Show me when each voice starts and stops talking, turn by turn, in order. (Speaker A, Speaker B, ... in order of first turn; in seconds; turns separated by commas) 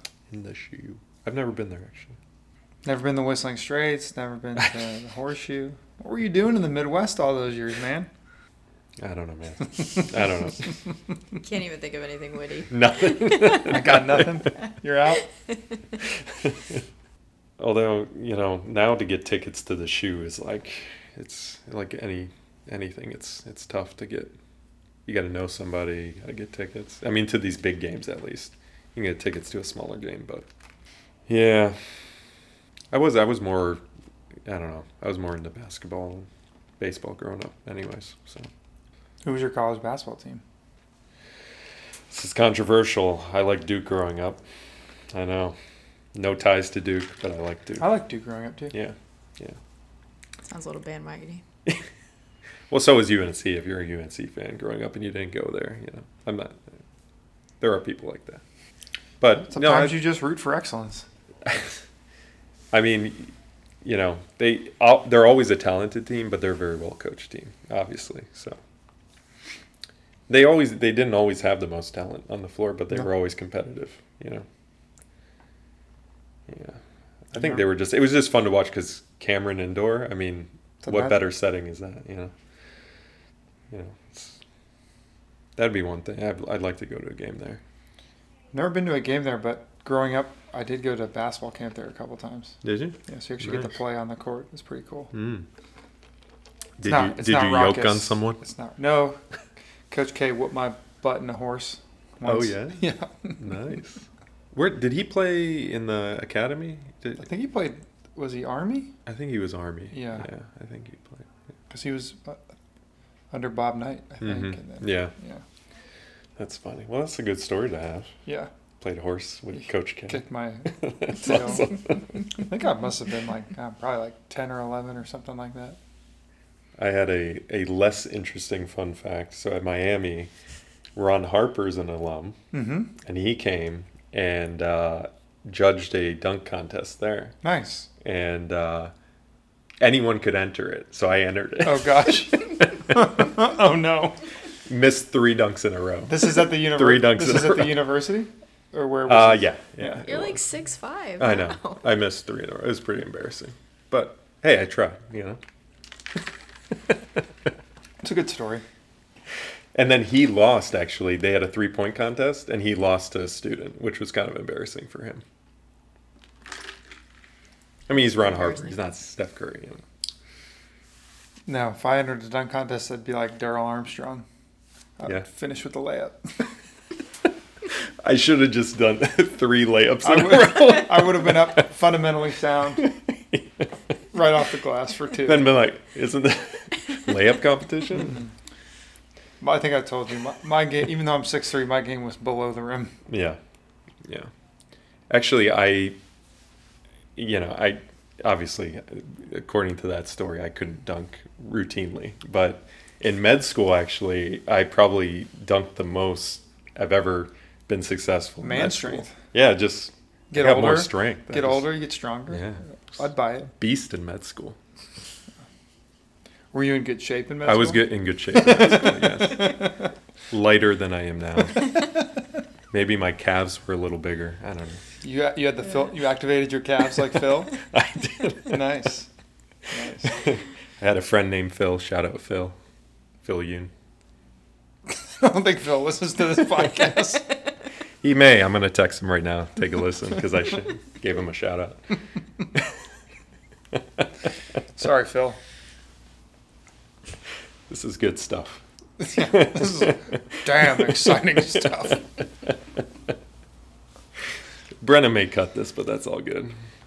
Speaker A: 0.3-2.1, Speaker B: 2.8-8.1, Speaker A: 9.0-10.8, Speaker C: 11.4-13.7, Speaker A: 12.7-14.3, Speaker B: 13.6-15.2, Speaker A: 16.3-16.8, Speaker A: 17.6-24.3, Speaker A: 25.1-30.5, Speaker A: 31.3-31.8, Speaker A: 32.9-33.8, Speaker A: 34.5-36.3, Speaker A: 36.8-38.5, Speaker B: 39.2-40.4, Speaker A: 42.1-44.4, Speaker A: 45.1-45.5, Speaker A: 46.1-47.9, Speaker B: 47.8-48.7, Speaker A: 48.7-49.6, Speaker C: 50.5-51.4, Speaker A: 52.7-56.6, Speaker A: 57.6-58.4, Speaker A: 59.2-60.0, Speaker B: 59.5-61.0, Speaker A: 61.5-61.7, Speaker A: 62.7-63.3, Speaker A: 63.8-68.6, Speaker A: 70.3-74.5, Speaker A: 76.5-76.8, Speaker A: 77.3-82.3, Speaker B: 77.3-77.7, Speaker B: 80.8-81.2, Speaker A: 83.7-84.4, Speaker A: 85.5-87.6, Speaker B: 88.5-95.1, Speaker A: 92.6-93.8, Speaker A: 95.1-95.5, Speaker A: 96.8-98.4, Speaker B: 96.8-99.2, Speaker B: 99.9-103.5, Speaker A: 102.2-107.2, Speaker B: 107.2-108.9, Speaker A: 109.0-111.3, Speaker B: 109.9-110.2, Speaker B: 111.7-112.4, Speaker B: 113.3-115.4, Speaker A: 114.2-115.1, Speaker A: 116.4-118.1, Speaker A: 118.8-122.0, Speaker B: 120.1-125.8, Speaker A: 126.8-130.3, Speaker A: 131.0-132.4, Speaker B: 132.5-132.9, Speaker A: 133.0-137.4, Speaker B: 137.4-137.9, Speaker A: 138.0-138.9, Speaker A: 139.8-142.5, Speaker B: 141.6-144.2, Speaker A: 144.7-148.0, Speaker B: 146.1-150.1, Speaker A: 149.1-150.4, Speaker C: 150.0-151.8, Speaker A: 151.2-155.4, Speaker B: 158.0-158.6, Speaker A: 159.8-165.2, Speaker A: 167.9-169.8, Speaker B: 171.5-174.2, Speaker B: 175.0-176.3, Speaker A: 178.0-181.6, Speaker B: 180.0-182.9, Speaker A: 182.8-183.4, Speaker B: 184.1-185.6, Speaker A: 185.2-188.2, Speaker B: 188.0-188.3, Speaker B: 189.4-192.9, Speaker A: 193.1-193.4, Speaker A: 194.0-194.3, Speaker A: 195.1-196.0, Speaker A: 197.2-211.7, Speaker B: 208.4-209.2, Speaker B: 210.3-213.5, Speaker A: 212.3-212.6, Speaker A: 213.6-214.6, Speaker B: 216.5-219.9, Speaker A: 217.4-219.7, Speaker A: 220.3-221.8, Speaker A: 222.7-224.8, Speaker B: 225.0-227.5, Speaker A: 227.7-228.6, Speaker B: 228.5-229.1, Speaker B: 229.7-230.1, Speaker A: 230.1-232.6, Speaker A: 233.2-233.7, Speaker B: 234.9-237.2, Speaker A: 238.0-241.9, Speaker B: 244.8-245.4, Speaker A: 247.7-248.6, Speaker B: 249.0-252.0, Speaker A: 249.2-249.9, Speaker A: 250.5-251.0, Speaker A: 254.8-256.5